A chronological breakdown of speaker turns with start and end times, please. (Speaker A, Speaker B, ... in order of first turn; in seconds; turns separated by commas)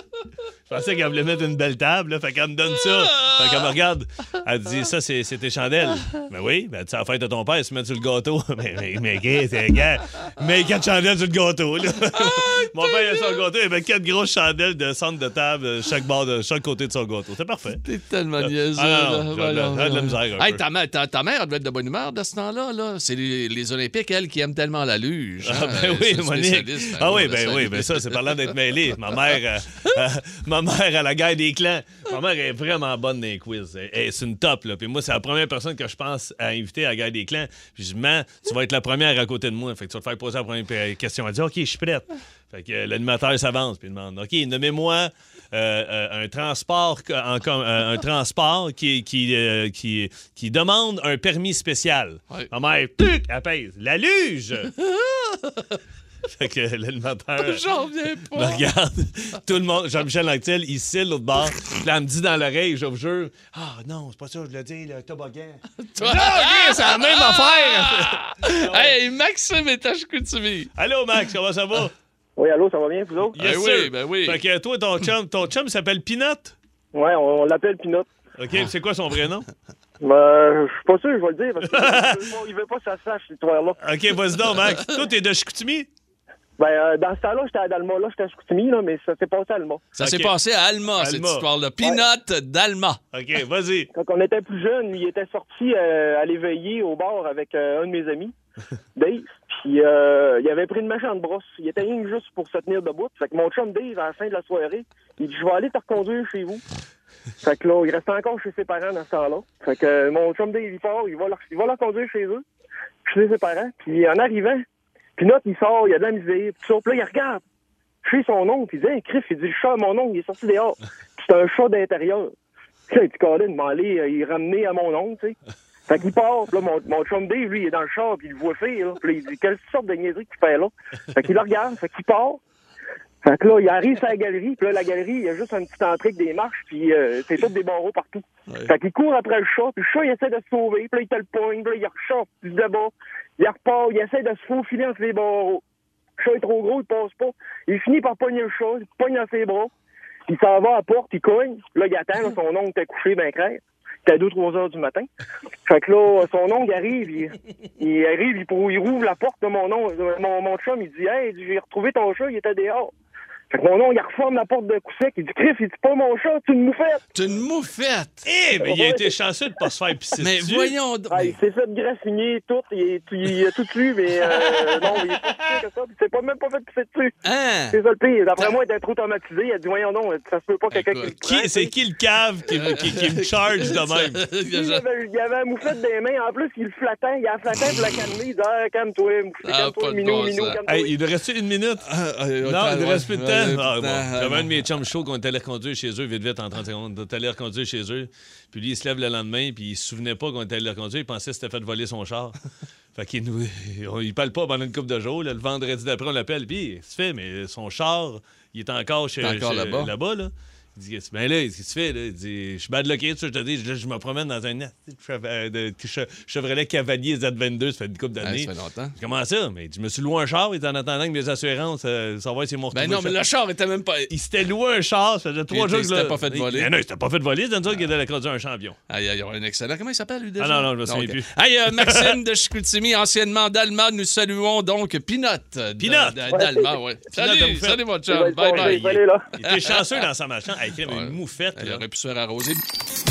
Speaker A: 0.7-17.8, Speaker B: 2.7-3.7, Speaker B: 12.1-13.4, Speaker B: 17.8-28.4, Speaker A: 18.4-20.6, Speaker A: 25.4-54.8, Speaker B: 55.0-55.8, Speaker A: 56.3-57.6, Speaker B: 57.4-58.7, Speaker A: 58.2-69.0, Speaker B: 65.9-70.7, Speaker A: 70.8-71.9, Speaker C: 72.4-73.4, Speaker A: 73.3-76.5, Speaker B: 73.4-74.4, Speaker C: 76.9-78.1, Speaker A: 78.4-79.5, Speaker C: 80.0-83.8, Speaker A: 81.6-82.2, Speaker A: 83.8-85.9, Speaker C: 86.6-89.9, Speaker B: 90.0-93.0, Speaker A: 90.0-90.3, Speaker A: 90.9-91.5, Speaker A: 93.1-93.9, Speaker C: 93.9-98.3, Speaker C: 99.0-106.6, Speaker C: 107.4-112.4, Speaker C: 113.0-114.6, Speaker C: 115.2-117.4, Speaker C: 118.0-122.3, Speaker C: 122.9-125.4, Speaker C: 125.9-132.4, Speaker C: 133.2-145.6, Speaker B: 138.5-138.7, Speaker C: 146.2-149.7, Speaker C: 150.3-155.1, Speaker C: 155.7-162.9, Speaker C: 163.5-167.0, Speaker B: 167.1-168.3, Speaker A: 168.2-170.7, Speaker C: 168.6-169.1, Speaker B: 170.2-171.4, Speaker C: 171.1-177.2, Speaker B: 177.2-177.8, Speaker C: 177.7-181.7, Speaker B: 180.7-181.2, Speaker A: 181.1-184.3, Speaker B: 182.5-184.8, Speaker C: 184.5-190.9, Speaker B: 189.4-190.6, Speaker A: 190.7-191.8, Speaker B: 191.8-194.7, Speaker A: 192.4-202.4, Speaker A: 202.9-223.2, Speaker B: 209.2-209.9, Speaker B: 218.2-219.0, Speaker B: 222.7-224.1, Speaker A: 224.1-228.8, Speaker B: 225.5-226.7, Speaker B: 228.9-239.8, Speaker A: 230.4-232.2, Speaker A: 235.8-236.3, Speaker C: 236.3-236.7, Speaker A: 237.1-237.9, Speaker C: 238.1-239.3, Speaker A: 238.5-241.8, Speaker B: 240.9-242.6